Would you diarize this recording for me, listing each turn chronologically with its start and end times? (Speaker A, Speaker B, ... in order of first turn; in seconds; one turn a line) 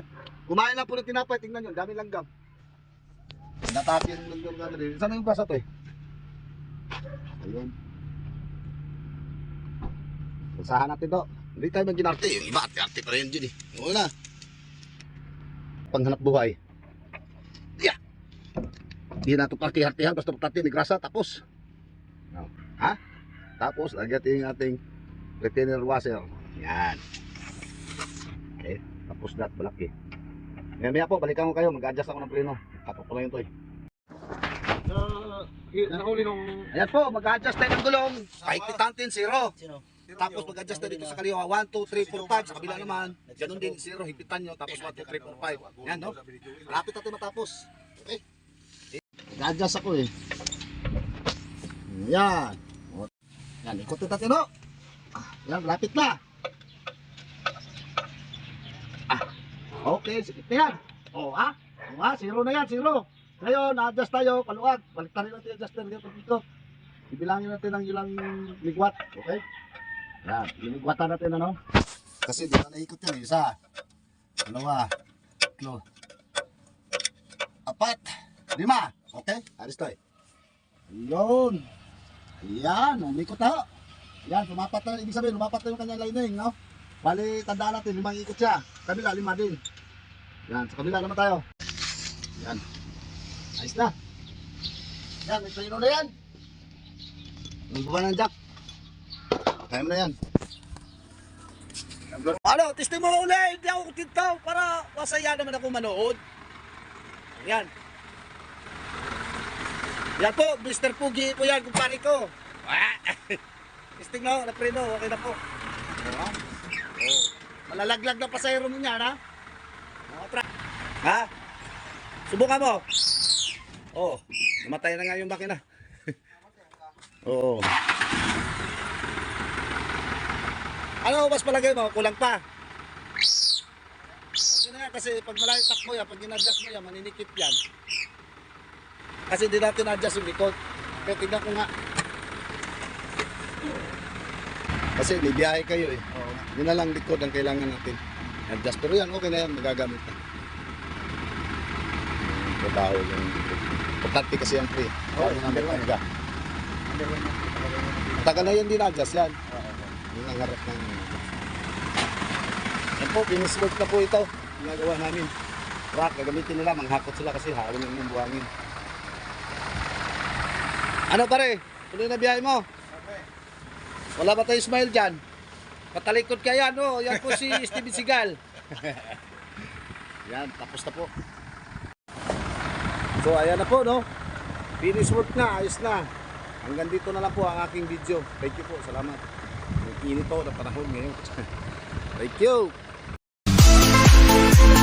Speaker A: 0.5-2.3
Speaker A: 3.7-5.6
Speaker A: 7.4-7.7
Speaker A: 10.6-14.1
Speaker A: 15.9-16.6
Speaker A: 19.2-21.4
Speaker A: 22.3-23.0
Speaker A: 23.6-24.8
Speaker A: 25.4-27.0
Speaker A: 28.6-29.9
Speaker A: 30.8-33.5
Speaker B: 34.9-36.7
Speaker A: 36.7-39.5
Speaker B: 38.4-38.7
Speaker C: 39.6-40.0
Speaker B: 40.1-40.7
Speaker A: 40.1-48.2
Speaker C: 40.6-41.2
Speaker B: 42.0-43.1
Speaker C: 42.6-43.8
Speaker B: 44.9-46.8
Speaker A: 49.3-50.1
Speaker A: 51.9-53.1
Speaker A: 53.6-54.5
Speaker A: 55.1-56.2
Speaker A: 59.8-66.4
Speaker A: 67.1-69.4
Speaker A: 70.2-71.6
Speaker A: 72.2-73.6
Speaker A: 74.4-74.9
Speaker A: 75.6-75.8
Speaker A: 77.7-80.0
Speaker A: 80.9-81.7
Speaker A: 82.4-83.7
Speaker A: 84.2-89.6
Speaker A: 90.5-91.4
Speaker A: 92.4-92.6
Speaker A: 93.6-93.9
Speaker A: 95.2-96.1
Speaker A: 97.7-98.3
Speaker A: 99.7-100.2
Speaker A: 102.1-106.2
Speaker A: 107.4-107.7
Speaker A: 110.2-113.4
Speaker A: 114.0-115.4
Speaker A: 116.0-116.3
Speaker A: 117.0-119.2
Speaker A: 120.1-120.4
Speaker A: 121.0-121.3
Speaker A: 122.3-122.8
Speaker A: 123.9-125.6
Speaker A: 127.2-127.7
Speaker A: 131.0-132.4
Speaker A: 134.5-137.6
Speaker A: 139.3-141.7
Speaker A: 144.9-150.2
Speaker A: 152.2-156.0
Speaker C: 155.2-155.8
Speaker C: 156.9-158.6
Speaker A: 158.2-159.4
Speaker C: 159.5-159.9
Speaker A: 160.0-161.2
Speaker A: 163.0-165.3
Speaker A: 165.9-168.5
Speaker A: 171.1-172.7
Speaker B: 172.9-173.3
Speaker A: 174.2-175.2
Speaker A: 175.9-179.2
Speaker B: 177.1-177.8
Speaker A: 180.2-181.1
Speaker A: 183.2-184.1
Speaker A: 184.8-186.1
Speaker A: 186.6-189.2
Speaker A: 189.8-191.5
Speaker A: 192.1-192.7